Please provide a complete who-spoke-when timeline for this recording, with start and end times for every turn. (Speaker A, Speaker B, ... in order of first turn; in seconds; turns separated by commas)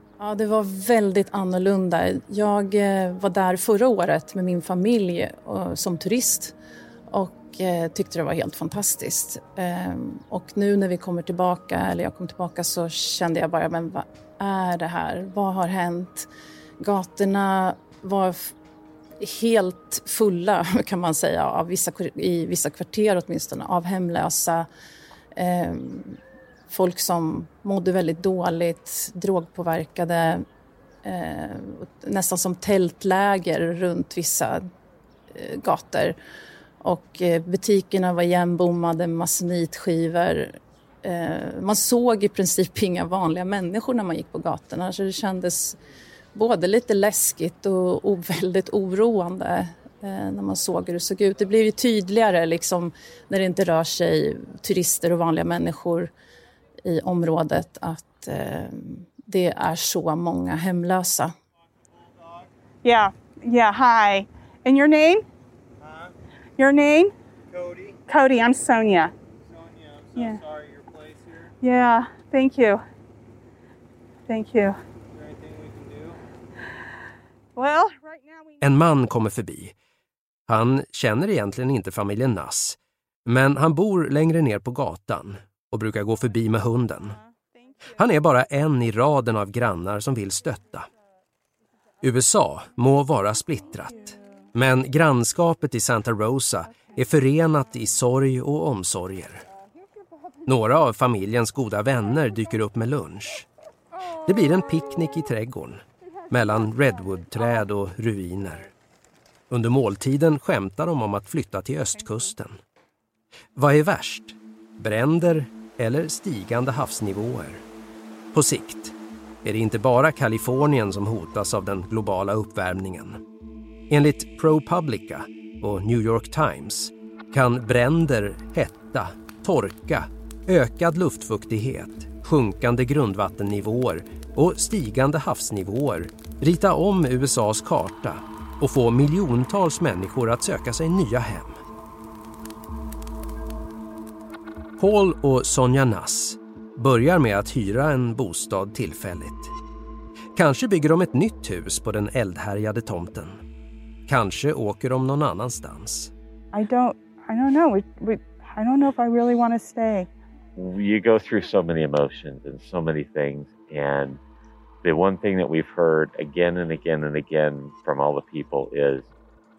Speaker A: 0.2-6.5, Speaker A: 7.1-16.3, Speaker A: 16.8-18.6, Speaker A: 19.2-24.7, Speaker A: 25.4-26.2, Speaker A: 26.7-30.4, Speaker A: 31.0-34.6, Speaker A: 35.3-36.2, Speaker A: 36.8-45.8, Speaker A: 46.4-56.1, Speaker A: 56.9-61.3, Speaker B: 62.8-65.2, Speaker B: 66.6-67.1, Speaker B: 68.1-69.1, Speaker C: 69.8-71.1, Speaker B: 70.2-70.4, Speaker B: 71.6-72.8, Speaker B: 74.3-74.8, Speaker C: 75.2-76.2, Speaker B: 77.6-78.2, Speaker D: 78.6-79.7, Speaker D: 80.5-87.2, Speaker D: 87.9-90.9, Speaker D: 92.0-99.5, Speaker D: 100.4-103.5, Speaker D: 104.2-108.7, Speaker D: 109.5-112.6, Speaker D: 113.6-117.7, Speaker D: 118.3-123.2, Speaker D: 123.9-141.6, Speaker D: 144.8-149.5, Speaker D: 150.4-153.4, Speaker D: 154.1-156.1, Speaker B: 156.5-160.1, Speaker E: 160.6-164.2, Speaker E: 164.8-169.1